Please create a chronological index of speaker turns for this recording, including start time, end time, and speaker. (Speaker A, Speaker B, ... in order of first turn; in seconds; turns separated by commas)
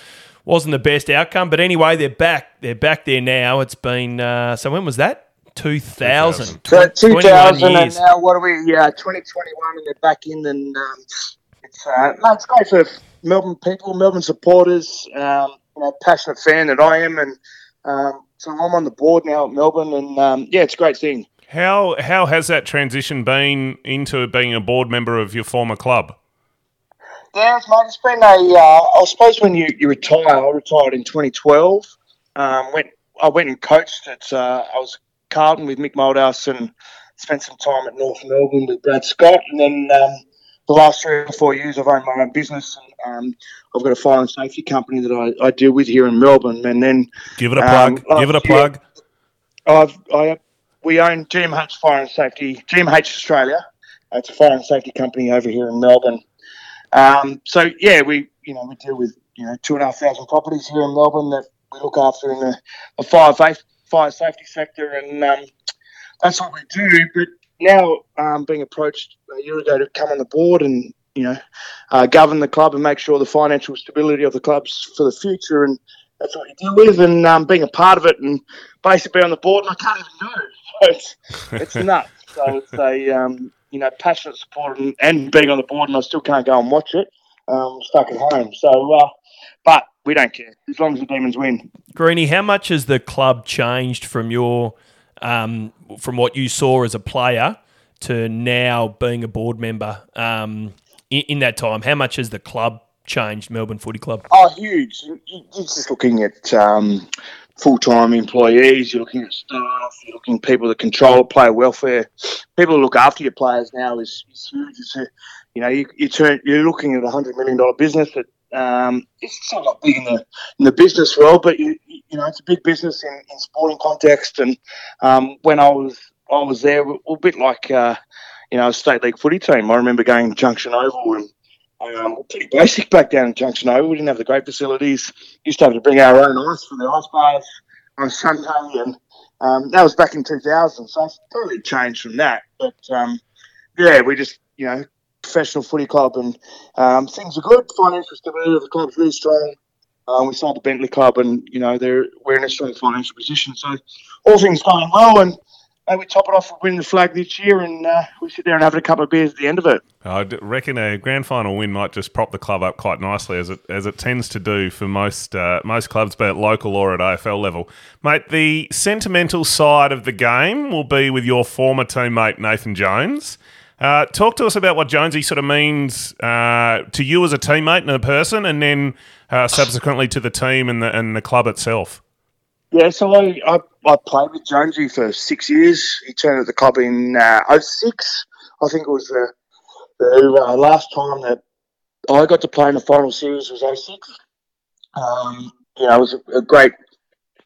Speaker A: 0.4-8.0, Speaker B: 6.0-6.6, Speaker C: 6.7-21.3, Speaker B: 21.5-26.1, Speaker C: 27.3-48.7, Speaker B: 47.4-48.8, Speaker C: 49.7-56.2, Speaker C: 56.9-65.5, Speaker C: 66.2-71.4, Speaker C: 71.9-89.1, Speaker C: 89.6-91.7, Speaker A: 91.9-104.2, Speaker C: 104.3-107.0, Speaker C: 107.6-128.0, Speaker C: 128.5-131.3, Speaker C: 131.8-137.4, Speaker C: 138.0-143.2, Speaker C: 143.8-149.5, Speaker C: 150.1-159.8, Speaker B: 160.0-182.0, Speaker C: 182.7-189.3, Speaker C: 190.0-191.4, Speaker C: 192.1-194.1, Speaker C: 194.9-196.7